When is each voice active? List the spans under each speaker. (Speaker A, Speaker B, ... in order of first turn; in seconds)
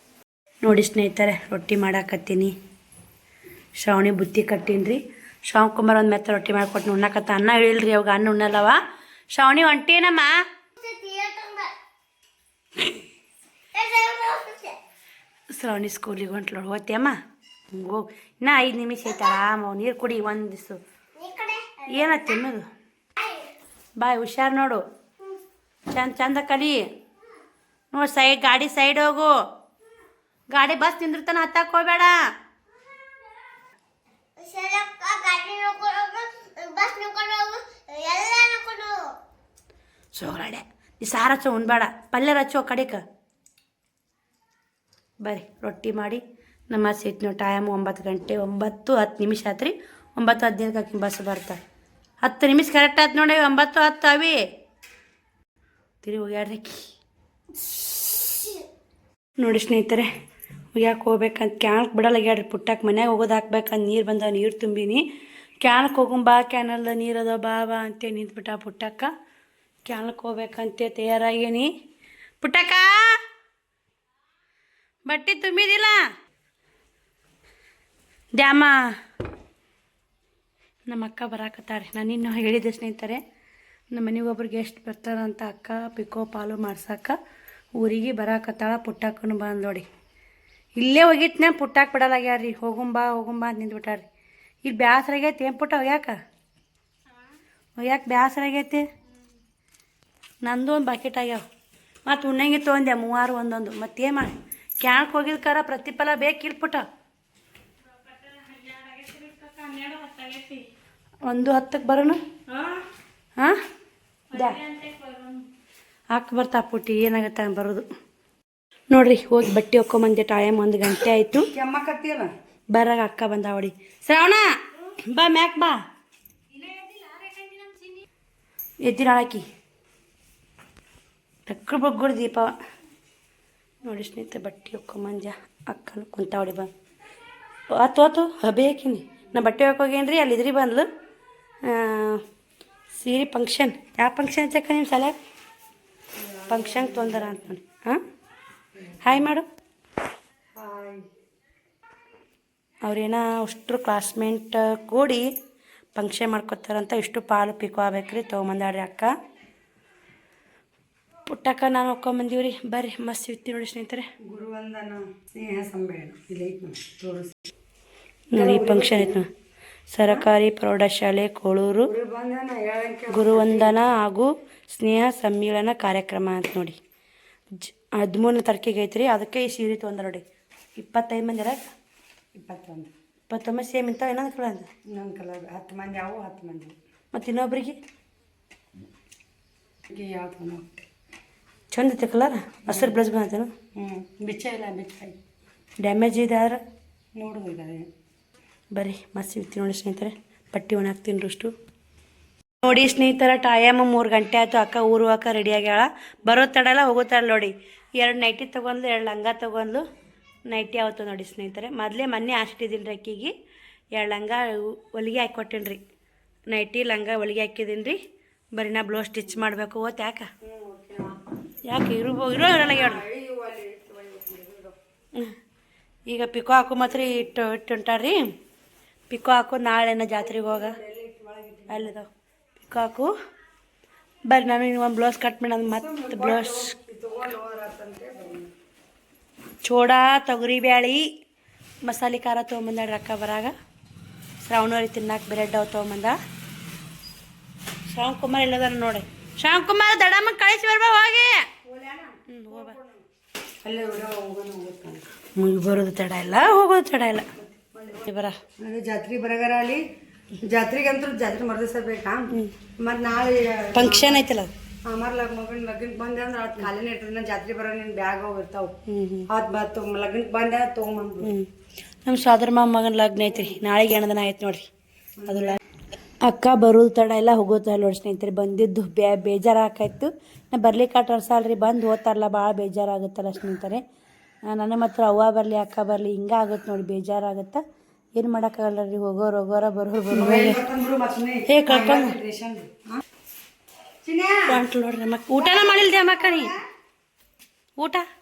Speaker A: 0.6-2.5, 3.8-8.8, 9.3-10.3, 15.5-17.1, 17.7-20.8, 21.9-22.6, 24.0-24.8, 25.9-26.8, 27.9-29.3, 30.5-32.2, 40.1-43.0, 45.2-51.6, 52.2-54.4, 56.0-56.9, 59.4-60.1, 60.7-65.0, 65.6-69.1, 69.8-71.7, 72.4-73.1, 75.1-76.0, 78.3-78.9, 80.9-83.2, 83.9-87.2, 87.8-89.8, 90.8-94.0, 94.6-96.1, 97.8-98.9, 100.4-101.4, 102.0-106.8, 108.2-110.6, 111.2-112.2, 114.3-115.2, 116.1-117.8, 118.9-121.5, 122.7-124.5, 125.1-125.8, 128.8-129.4, 131.5-132.5, 133.8-136.7, 137.7-140.9, 141.6-142.2, 142.9-145.1, 146.5-148.0, 149.0-149.4, 152.8-155.3, 155.9-159.1, 161.3-164.1, 168.3-169.3, 169.9-171.9, 173.1-176.8, 177.5-180.2, 180.8-181.7, 183.3-184.7, 187.1-187.8, 191.7-193.5, 195.8-196.6, 198.7-201.5, 202.6-209.8, 210.5-213.3, 213.9-215.8, 216.5-218.0, 218.5-220.3, 221.6-223.0, 226.1-228.2, 229.1-230.8, 231.7-232.1, 232.6-233.1, 234.3-236.7, 239.6-241.1, 241.8-243.5, 244.4-246.2, 247.9-251.4, 252.3-252.8, 255.3-258.4, 263.7-264.5, 268.9-269.3, 271.2-271.5, 272.0-274.7, 275.3-275.6, 276.2-283.8, 284.5-287.6, 288.1-290.6, 291.5-292.1, 294.5-296.5, 297.8-298.1
Speaker B: 10.8-11.7, 13.7-14.8, 21.1-22.4, 23.2-23.5, 34.4-39.1
Speaker C: 121.5-122.3, 126.5-127.9, 146.2-147.4, 150.5-151.1, 164.2-167.4, 168.3-169.2, 171.8-173.7, 182.3-182.9, 184.9-186.8, 189.9-190.8, 192.7-193.0, 193.7-195.2, 197.2-197.9, 220.4-221.2, 222.4-224.8, 230.2-231.9, 235.7-238.5, 251.6-253.0, 253.6-255.0, 258.6-259.8, 260.4-264.2, 264.9-268.8, 269.3-271.3, 275.2-275.6, 290.1-293.0, 294.0-294.6, 295.4-296.5